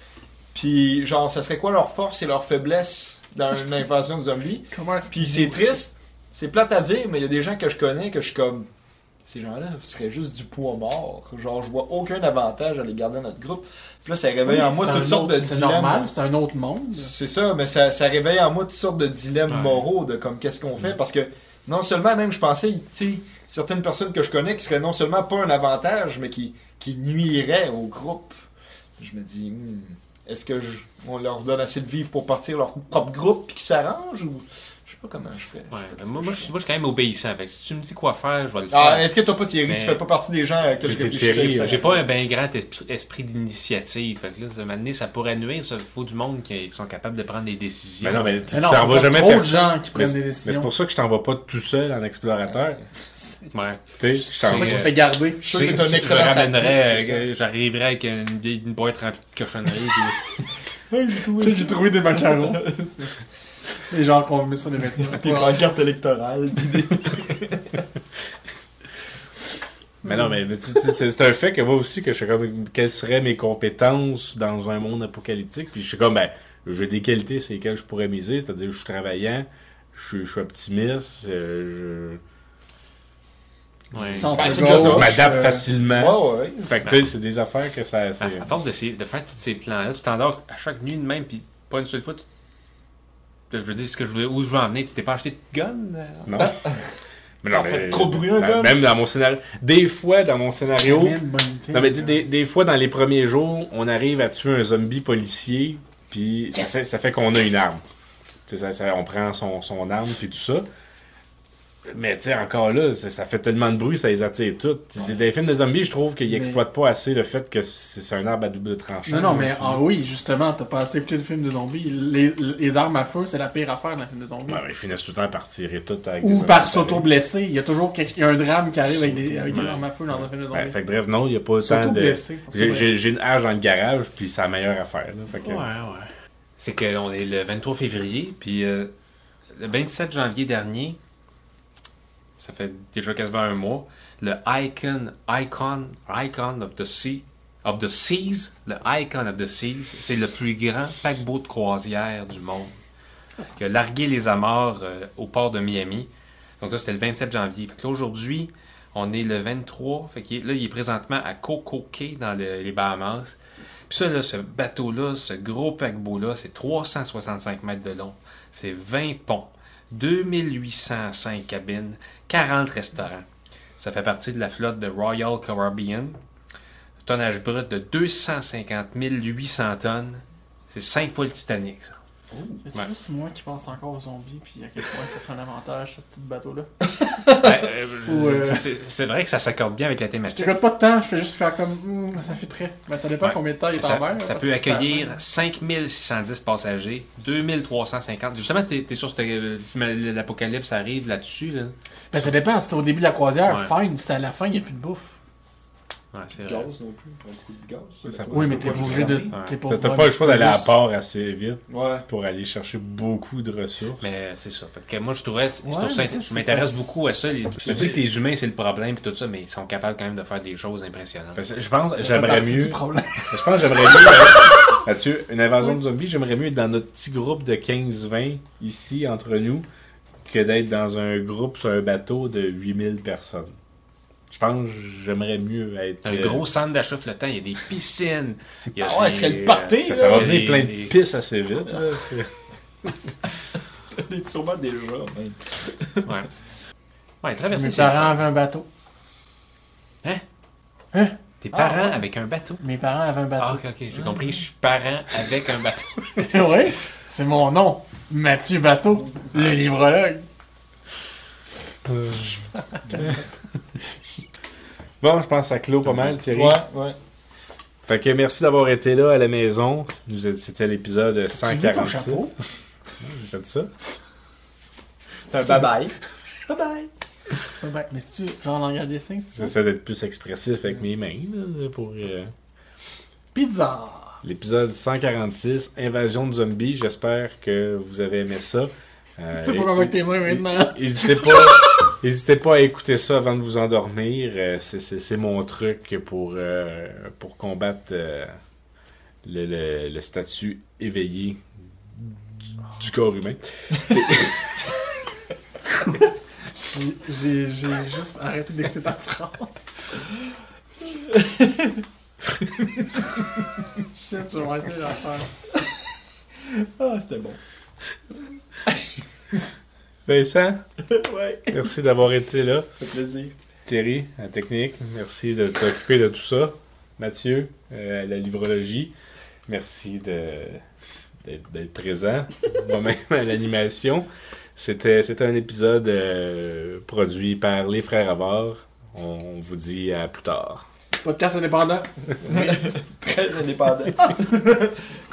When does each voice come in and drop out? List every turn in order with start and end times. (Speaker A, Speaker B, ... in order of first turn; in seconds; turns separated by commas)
Speaker A: 0.5-8.7, Speaker B: 4.7-5.7, Speaker A: 9.3-16.1, Speaker B: 14.4-17.1, Speaker A: 16.9-28.4, Speaker C: 19.5-19.9, Speaker A: 29.0-36.5, Speaker C: 35.7-40.0, Speaker A: 38.7-42.0, Speaker D: 40.8-41.9, Speaker C: 41.0-48.3, Speaker D: 48.0-52.8, Speaker B: 48.5-50.7, Speaker C: 53.5-60.3, Speaker D: 54.0-54.9, Speaker B: 54.4-55.6, Speaker A: 55.4-57.2, Speaker A: 60.9-63.1, Speaker B: 61.4-62.8, Speaker B: 63.9-65.7, Speaker A: 65.0-67.8, Speaker D: 70.0-82.2, Speaker C: 83.9-84.4, Speaker B: 84.1-85.7, Speaker A: 84.2-86.8, Speaker D: 84.3-88.5, Speaker C: 88.2-92.3, Speaker C: 93.5-96.6, Speaker D: 96.3-96.6, Speaker D: 97.4-101.2, Speaker A: 97.5-98.8, Speaker B: 100.7-102.2, Speaker D: 101.7-107.8, Speaker D: 108.5-110.7, Speaker D: 111.9-119.8, Speaker B: 116.3-116.6, Speaker B: 119.1-124.6, Speaker D: 124.5-127.1, Speaker B: 126.2-130.8, Speaker C: 129.5-129.8, Speaker D: 130.5-135.7, Speaker B: 131.6-132.9, Speaker C: 135.3-138.9, Speaker C: 139.5-141.0, Speaker C: 142.4-152.7, Speaker C: 153.5-163.4, Speaker C: 163.9-173.2, Speaker C: 173.8-176.2, Speaker C: 177.0-182.0, Speaker A: 182.3-182.6, Speaker B: 182.7-186.7, Speaker C: 187.3-190.6, Speaker B: 188.1-188.7, Speaker B: 190.3-195.2, Speaker C: 193.2-201.8, Speaker B: 202.1-205.2, Speaker C: 203.5-203.7, Speaker C: 206.1-206.7, Speaker A: 206.4-209.4, Speaker D: 208.1-214.1, Speaker B: 208.3-210.7, Speaker A: 211.7-212.1, Speaker C: 214.0-221.4, Speaker B: 215.6-217.0, Speaker D: 217.7-218.0, Speaker A: 217.7-217.9, Speaker D: 221.3-229.7, Speaker B: 221.9-224.1, Speaker D: 230.3-233.5, Speaker D: 234.3-236.4, Speaker C: 236.0-241.0, Speaker A: 238.8-240.4, Speaker D: 239.8-242.3, Speaker A: 243.9-246.1, Speaker C: 247.2-248.2, Speaker B: 247.5-248.7, Speaker B: 250.9-251.2, Speaker C: 251.4-252.6, Speaker A: 251.5-252.0, Speaker B: 252.6-253.6, Speaker C: 253.4-256.7, Speaker A: 253.9-254.4, Speaker B: 256.2-260.2, Speaker D: 262.0-262.3, Speaker D: 265.0-266.6, Speaker A: 266.2-267.0, Speaker D: 267.9-272.3, Speaker B: 271.3-272.3, Speaker D: 273.0-273.7, Speaker A: 275.3-276.9, Speaker B: 277.6-279.6, Speaker D: 279.4-282.3, Speaker B: 283.4-284.2, Speaker D: 284.2-298.3, Speaker B: 289.4-291.5, Speaker D: 299.2-301.4, Speaker D: 301.9-304.4, Speaker B: 306.5-309.7, Speaker A: 311.0-311.8, Speaker B: 313.9-315.3, Speaker A: 316.4-317.4, Speaker D: 320.1-320.6, Speaker A: 320.9-321.6, Speaker D: 321.5-322.7, Speaker A: 322.8-323.3, Speaker D: 323.7-328.9, Speaker D: 329.5-330.6, Speaker D: 331.2-340.7, Speaker B: 341.0-342.4, Speaker A: 342.2-344.8